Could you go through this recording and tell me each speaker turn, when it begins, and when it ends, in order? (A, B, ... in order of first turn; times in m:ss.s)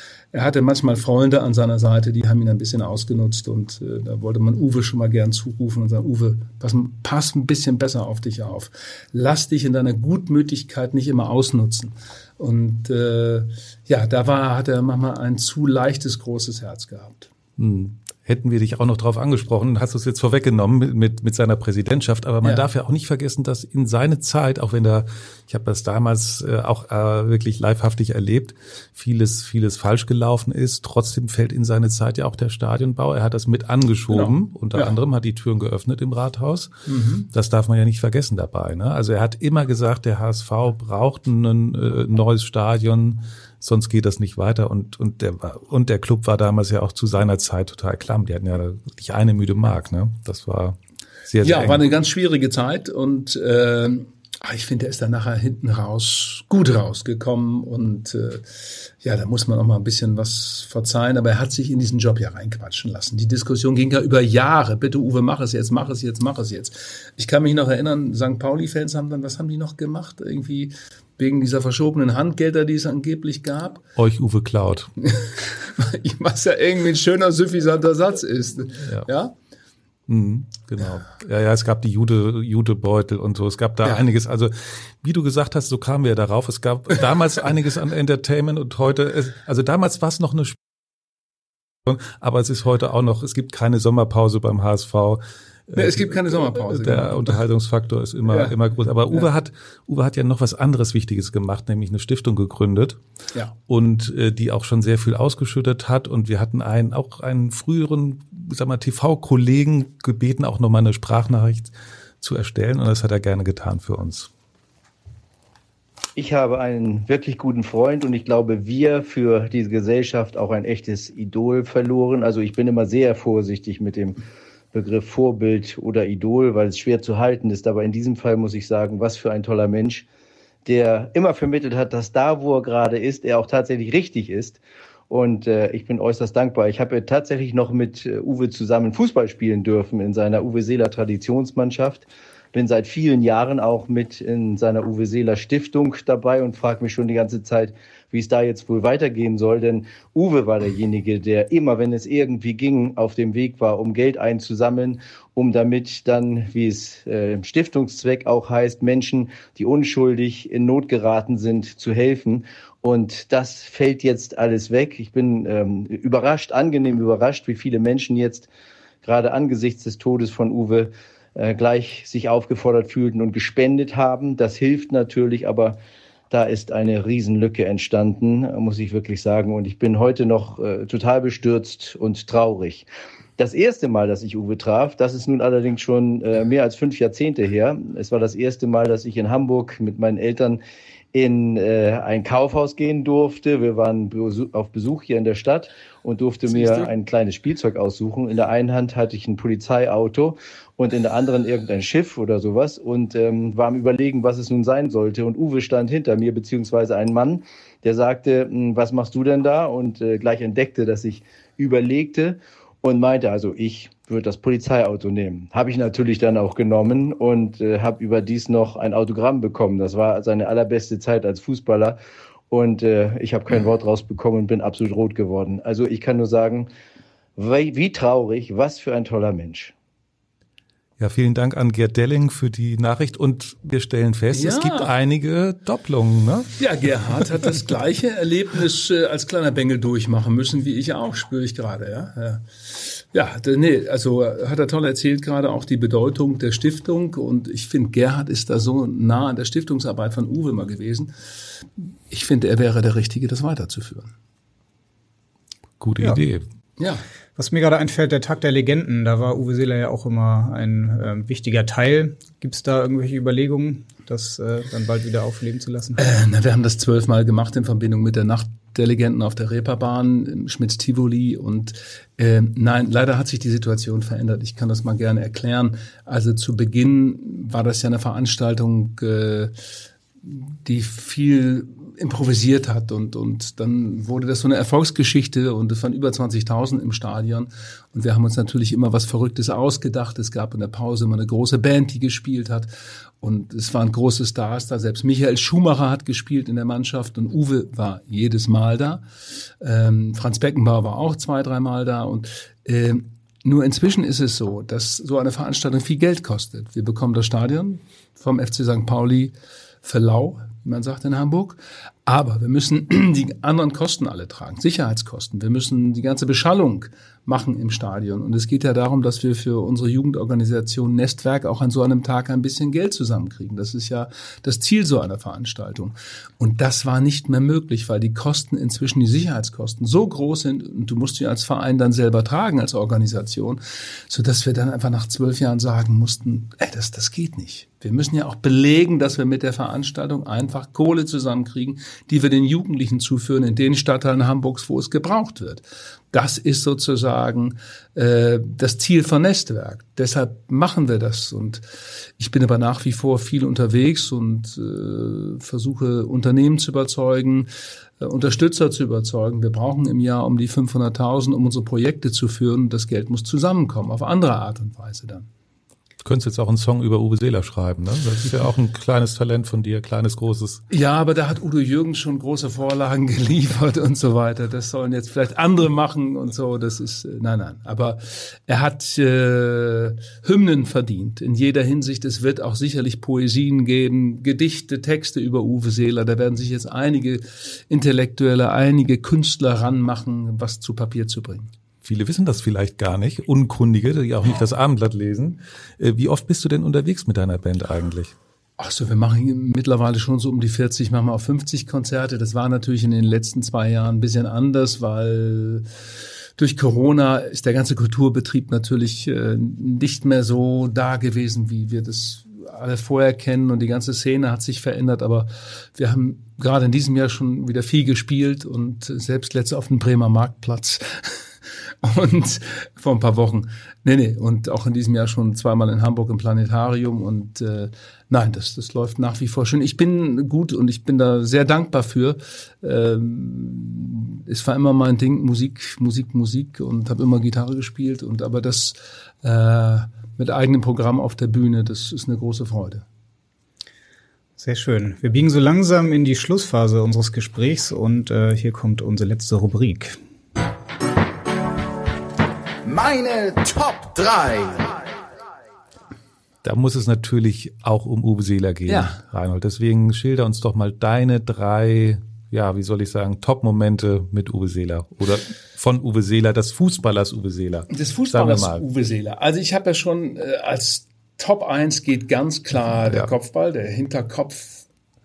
0:00.3-0:17.3 A
0:17.6-0:36.7 B
0:22.4-0:22.7 A
0:34.1-0:34.9 A
0:36.9-0:37.3 A
0:37.3-0:51.8 B
0:51.4-1:13.8 A
1:14.0-1:14.9 B
1:15.0-1:19.3 A
1:20.1-1:30.6 B
1:31.9-1:43.0 B
1:35.8-1:37.4 A
1:38.2-1:38.5 A
1:43.7-1:54.3 B
1:56.2-2:04.2 C
2:04.7-2:10.0 C
2:10.6-2:48.5 C
2:49.0-2:55.8 C
2:56.3-3:10.6 C
3:11.1-3:42.0 C
3:16.5-3:16.9 A
3:42.5-3:46.7 C
3:47.4-3:49.7 C
3:51.0-3:56.5 B
3:54.3-3:54.9 A
3:56.6-4:11.1 A
4:11.8-4:14.1 A
4:15.8-4:16.4 B
4:16.8-4:17.0 A
4:17.4-4:26.0 D
4:26.0-4:39.5 A
4:40.2-4:52.7 A
4:53.2-4:59.0 A
4:59.6-5:51.6 A
5:52.2-5:57.5 A
5:58.0-6:05.2 A
6:06.0-6:10.6 B
6:10.7-6:31.5 A
6:31.8-6:38.1 B
6:38.6-6:45.6 A
6:46.4-7:01.2 A
7:01.8-7:22.8 A
7:24.4-7:30.0 D
7:32.6-7:34.7 E
7:36.4-7:48.6 B
7:38.7-7:39.0 A
7:47.7-7:54.6 A